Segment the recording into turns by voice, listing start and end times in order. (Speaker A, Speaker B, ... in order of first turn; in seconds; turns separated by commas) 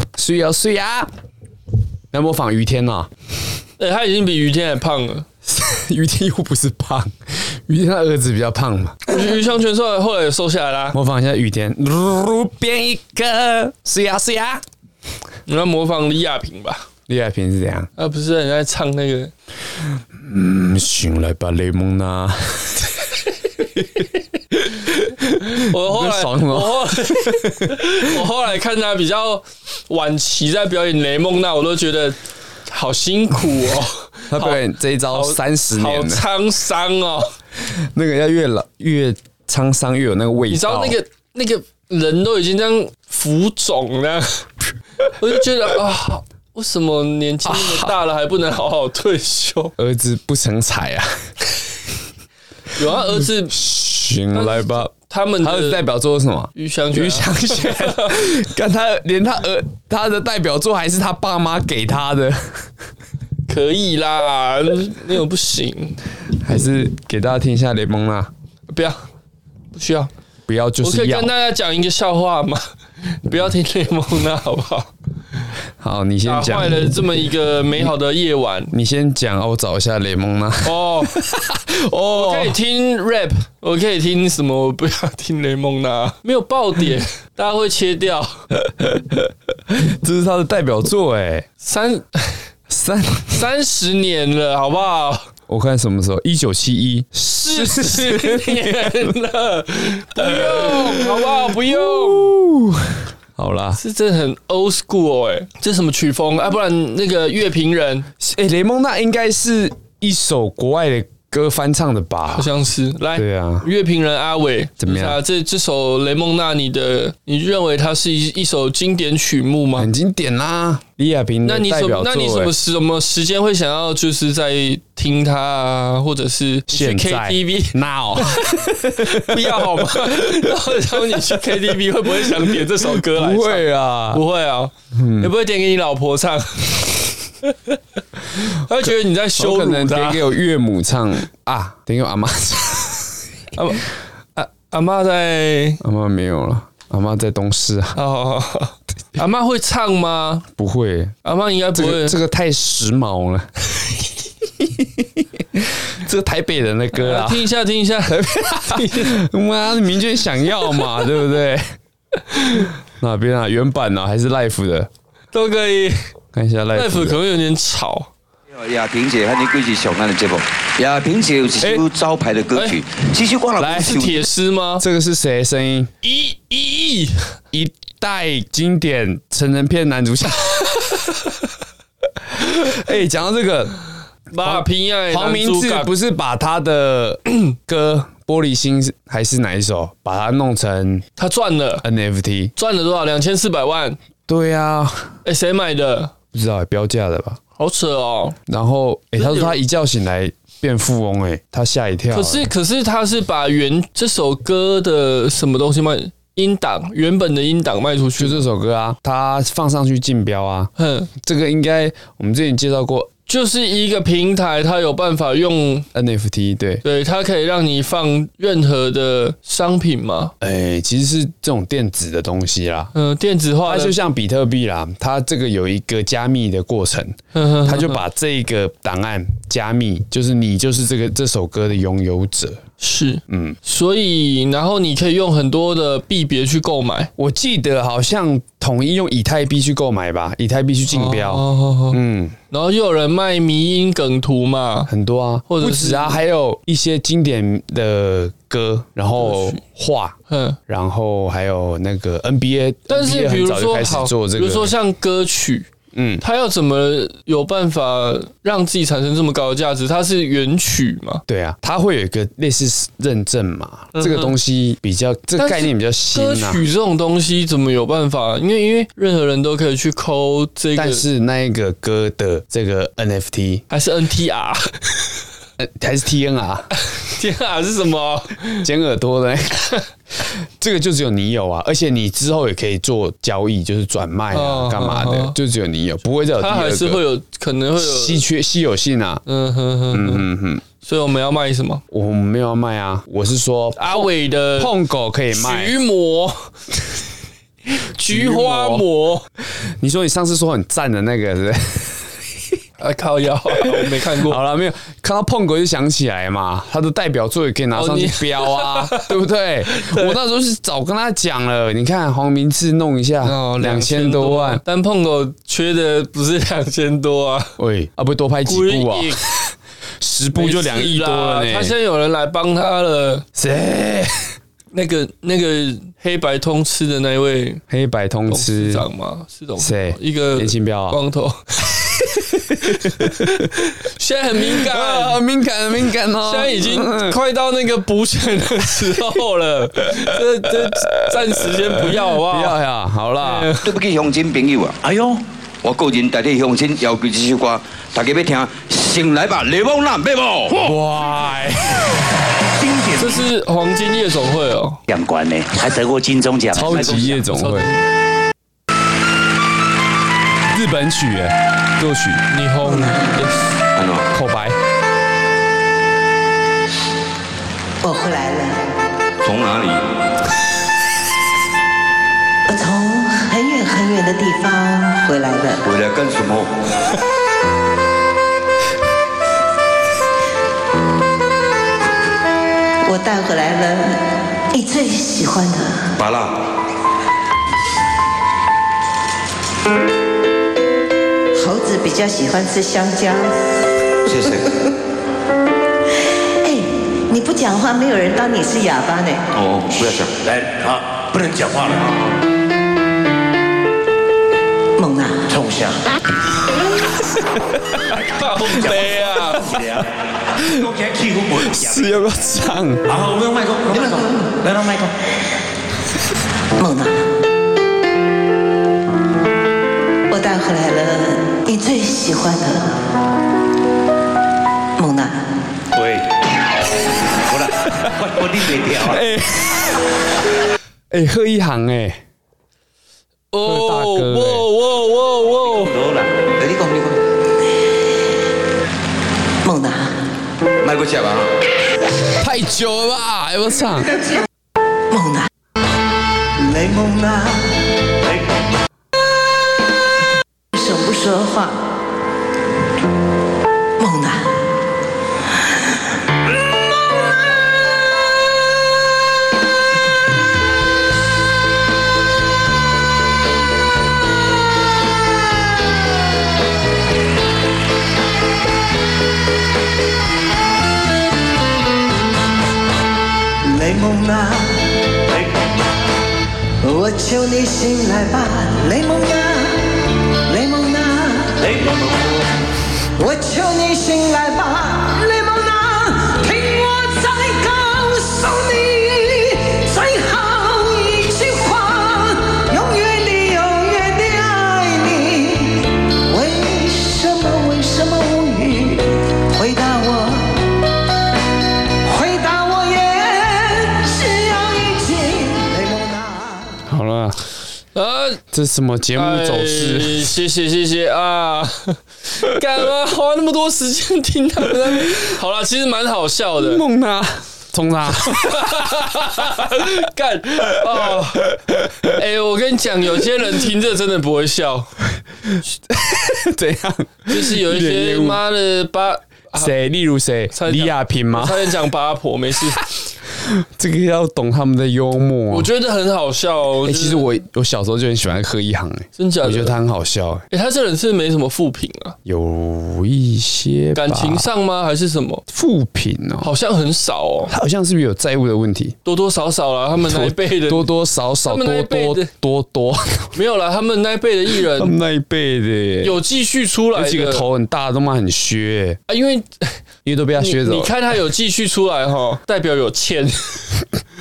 Speaker A: 0.1-1.1, Speaker A: 2.1-3.1, Speaker B: 3.8-5.3, Speaker A: 5.5-9.2, Speaker B: 9.1-11.0, Speaker A: 10.9-14.6, Speaker B: 15.5-16.9, Speaker A: 17.1-17.9, Speaker B: 18.0-19.3, Speaker A: 20.1-22.9, Speaker A: 24.5-28.0, Speaker B: 25.4-32.2, Speaker B: 32.7-37.3, Speaker A: 34.3-36.2, Speaker A: 37.6-41.0, Speaker B: 40.5-44.4, Speaker B: 45.2-49.7, Speaker A: 47.5-47.9, Speaker A: 49.8-51.1, Speaker B: 52.7-53.6, Speaker A: 53.5-62.7, Speaker B: 54.3-55.8, Speaker B: 56.5-58.4, Speaker B: 63.5-66.0, Speaker A: 66.4-68.3, Speaker B: 68.7-69.0, Speaker B: 69.7-70.1, Speaker A: 70.5-71.3, Speaker B: 70.8-72.7, Speaker B: 73.2-74.9, Speaker A: 75.8-77.0, Speaker B: 76.2-78.7, Speaker A: 78.7-82.5, Speaker B: 80.6-81.2, Speaker B: 82.1-88.5, Speaker A: 88.6-91.5, Speaker B: 91.6-92.4, Speaker A: 92.7-93.5, Speaker B: 93.3-95.3, Speaker A: 95.5-99.2, Speaker B: 97.4-102.3, Speaker A: 100.1-103.8, Speaker B: 103.8-108.1, Speaker A: 108.2-112.5, Speaker B: 112.3-119.9, Speaker A: 113.1-113.7, Speaker A: 114.8-115.2, Speaker A: 119.8-122.5, Speaker B: 121.4-137.8, Speaker A: 126.7-134.2, Speaker A: 134.9-135.3, Speaker B: 138.3-140.2, Speaker A: 138.8-143.2, Speaker B: 143.5-145.8, Speaker A: 145.8-148.0, Speaker B: 147.9-150.5, Speaker A: 150.6-151.1, Speaker B: 151.2-152.2, Speaker A: 151.7-153.5, Speaker A: 154.6-157.4, Speaker B: 156.9-159.2, Speaker A: 158.1-161.7, Speaker A: 162.5-164.9, Speaker B: 165.3-166.0, Speaker A: 166.3-167.2, Speaker B: 166.7-168.1, Speaker C: 168.5-174.2, Speaker A: 173.6-173.9, Speaker B: 173.7-174.8, Speaker A: 174.8-175.9, Speaker B: 176.0-177.3, Speaker A: 177.5-180.7, Speaker A: 182.3-183.7, Speaker B: 184.3-185.9, Speaker A: 184.4-191.0, Speaker B: 191.2-191.8, Speaker A: 191.8-192.5, Speaker B: 192.6-194.0, Speaker A: 194.3-195.1, Speaker B: 195.2-196.1, Speaker A: 196.3-197.4, Speaker B: 197.6-198.3, Speaker A: 198.5-202.5, Speaker B: 199.2-199.6, Speaker B: 202.1-208.4, Speaker A: 208.2-213.1, Speaker B: 210.8-211.1, Speaker B: 213.3-215.9, Speaker A: 215.9-216.8, Speaker B: 216.8-220.3, Speaker A: 220.4-222.9, Speaker B: 222.9-223.9, Speaker A: 223.7-232.6, Speaker B: 227.3-228.0, Speaker B: 232.8-237.1, Speaker A: 233.3-233.6, Speaker A: 237.2-242.3, Speaker B: 240.9-242.0, Speaker B: 242.5-244.9, Speaker A: 244.9-250.1, Speaker B: 245.5-246.2, Speaker B: 249.2-249.6, Speaker B: 250.3-250.6, Speaker A: 250.7-254.7, Speaker B: 252.9-255.7, Speaker A: 255.9-256.2, Speaker B: 256.2-261.2, Speaker A: 261.3-266.6, Speaker B: 263.9-264.3, Speaker B: 265.4-271.0, Speaker A: 270.7-273.6, Speaker B: 273.7-274.7, Speaker A: 275.6-276.7, Speaker B: 276.9-278.6, Speaker A: 278.6-279.7, Speaker A: 280.6-287.0, Speaker B: 284.3-285.4, Speaker B: 286.4-288.2, Speaker A: 287.8-289.2, Speaker B: 289.2-290.2, Speaker A: 289.9-290.6, Speaker B: 290.8-291.8, Speaker A: 291.9-295.7, Speaker B: 293.8-294.7, Speaker B: 295.3-296.5, Speaker B: 297.7-299.2, Speaker A: 298.0-298.9, Speaker A: 299.8-302.1, Speaker B: 302.8-304.4, Speaker A: 303.6-314.6, Speaker B: 307.7-309.1, Speaker B: 309.7-310.2, Speaker B: 313.2-317.5, Speaker A: 317.6-319.2, Speaker B: 318.4-319.3, Speaker A: 320.0-321.7, Speaker B: 320.3-323.2, Speaker A: 323.4-324.3, Speaker B: 324.7-327.6, Speaker A: 327.7-328.8, Speaker B: 328.3-335.2, Speaker A: 329.6-331.0, Speaker A: 332.0-333.5, Speaker A: 334.4-337.2, Speaker B: 336.2-342.6, Speaker A: 339.9-343.5, Speaker B: 343.2-343.7, Speaker C: 343.6-344.8, Speaker D: 344.8-345.2, Speaker C: 345.6-350.7, Speaker A: 350.6-352.0, Speaker D: 352.6-353.3, Speaker B: 353.0-354.8, Speaker D: 354.9-357.1, Speaker A: 356.5-357.7, Speaker B: 356.7-357.8, Speaker A: 360.5-362.2, Speaker B: 362.3-363.5, Speaker C: 363.7-364.1, Speaker A: 364.1-364.6, Speaker E: 367.8-368.6, Speaker C: 369.2-369.8, Speaker E: 372.5-375.6, Speaker C: 375.6-376.5, Speaker E: 382.8-385.9, Speaker C: 386.0-386.4, Speaker E: 391.3-393.5, Speaker C: 394.0-394.5, Speaker E: 396.4-399.2, Speaker C: 399.3-400.2, Speaker D: 400.2-402.0, Speaker E: 404.8-405.3, Speaker D: 405.3-405.8, Speaker A: 407.4-407.7, Speaker B: 407.9-409.6, Speaker A: 408.4-408.9, Speaker D: 409.4-411.9, Speaker A: 410.4-410.7, Speaker A: 411.4-412.9, Speaker D: 412.9-414.9, Speaker E: 413.7-414.3, Speaker E: 416.6-417.0, Speaker E: 420.1-422.8, Speaker E: 424.8-425.3, Speaker D: 425.7-426.1, Speaker D: 427.1-429.0, Speaker A: 428.7-429.8, Speaker A: 430.9-432.0, Speaker B: 433.3-435.7, Speaker A: 433.4-434.5, Speaker D: 435.6-436.9, Speaker E: 439.4-440.0, Speaker C: 440.6-441.3, Speaker A: 442.2-443.9, Speaker E: 444.9-445.3, Speaker E: 446.4-447.6, Speaker E: 450.5-451.6, Speaker E: 453.8-454.4, Speaker E: 473.4-474.8, Speaker E: 476.6-481.9, Speaker D: 481.4-482.1, Speaker E: 483.0-500.6, Speaker E: 501.8-506.6, Speaker A: 506.7-507.2, Speaker B: 507.7-508.2, Speaker A: 508.3-510.1, Speaker B: 508.9-516.6, Speaker A: 514.6-515.0, Speaker A: 516.4-518.7, Speaker B: 518.1-524.8, Speaker A: 519.4-519.7, Speaker A: 520.5-521.9, Speaker A: 525.7-528.2, Speaker B: 527.1-529.5, Speaker A: 529.4-531.5, Speaker B: 530.3-532.6, Speaker A: 532.6-535.5, Speaker B: 535.3-537.1, Speaker A: 536.6-540.2, Speaker B: 539.0-539.5, Speaker B: 540.3-542.0, Speaker A: 542.0-544.3, Speaker B: 543.7-545.2, Speaker A: 545.3-546.3, Speaker B: 546.2-547.3, Speaker A: 547.3-548.8, Speaker B: 548.8-550.7, Speaker A: 549.8-553.1, Speaker B: 551.2-552.1, Speaker B: 553.1-554.7, Speaker A: 554.4-556.0, Speaker B: 555.8-557.2, Speaker A: 556.7-558.8, Speaker B: 558.9-559.6, Speaker A: 559.8-560.7, Speaker B: 560.2-563.6